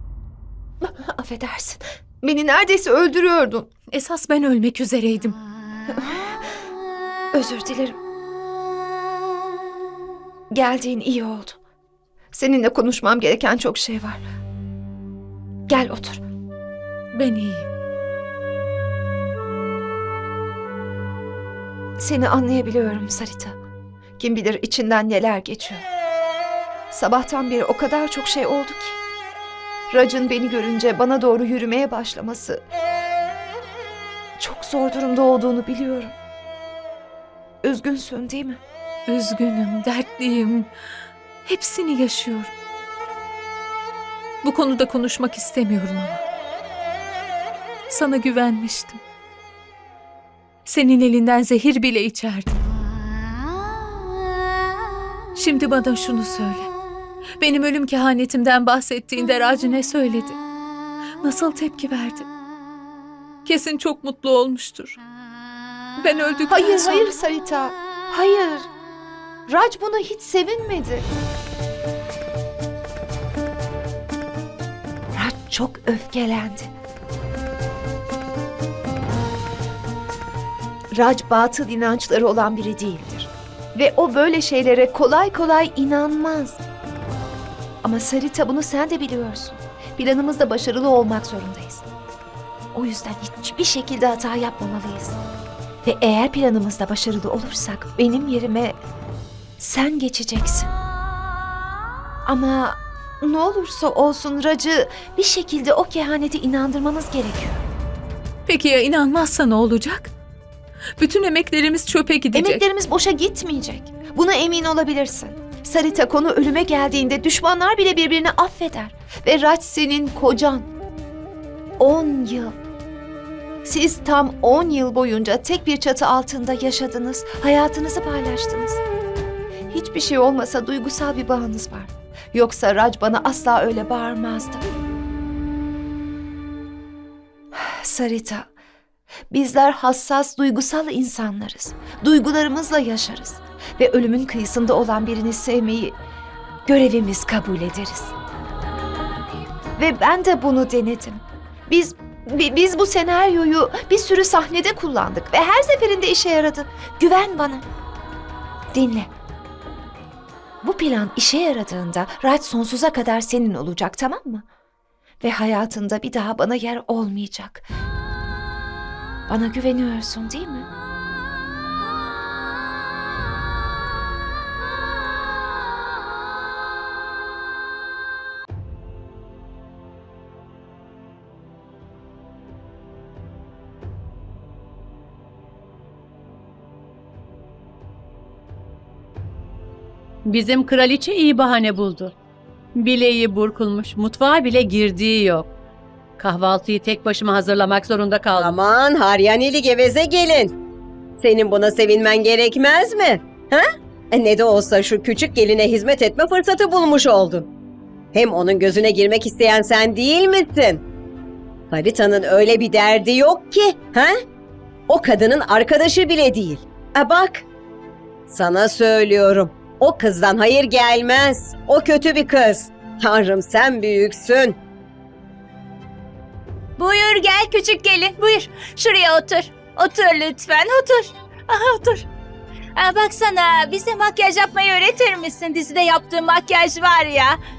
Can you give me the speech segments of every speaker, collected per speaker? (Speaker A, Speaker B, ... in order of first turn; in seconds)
Speaker A: 0.8-3.7, 5.9-6.4, 7.3-8.0, 10.5-11.6, 12.3-14.2, 15.7-16.2, 22.0-23.6, 24.2-25.8, 26.9-29.0, 29.9-32.6, 34.4-36.1, 37.6-38.6, 66.5-68.7, 69.5-71.1, 75.1-76.7, 80.9-86.6, 87.8-91.8, 92.7-95.2, 95.8-98.8, 99.6-100.7, 102.3-107.6, 112.3-120.7, 121.8-122.6, 123.7-128.8, 129.7-134.7, 137.5-138.5, 139.3-146.0, 146.7-148.1, 149.8-157.7, 158.7-159.1, 160.6-164.4, 165.2-167.7, 169.3-170.7
Speaker B: 3.9-5.4, 17.1-17.7, 39.1-40.7, 41.5-42.5, 44.4-46.2, 47.9-49.0, 50.6-52.6, 55.4-56.7, 57.4-60.4, 61.2-62.3, 63.5-65.0, 66.0-67.1, 108.5-110.1, 111.0-112.6
Speaker C: 190.3-192.1, 192.8-195.5, 196.2-198.6
Speaker D: 198.4-200.5, 201.2-207.5, 208.1-210.8, 211.7-214.2, 214.9-217.4, 218.3-224.6
Speaker E: 226.8-232.0, 232.8-237.4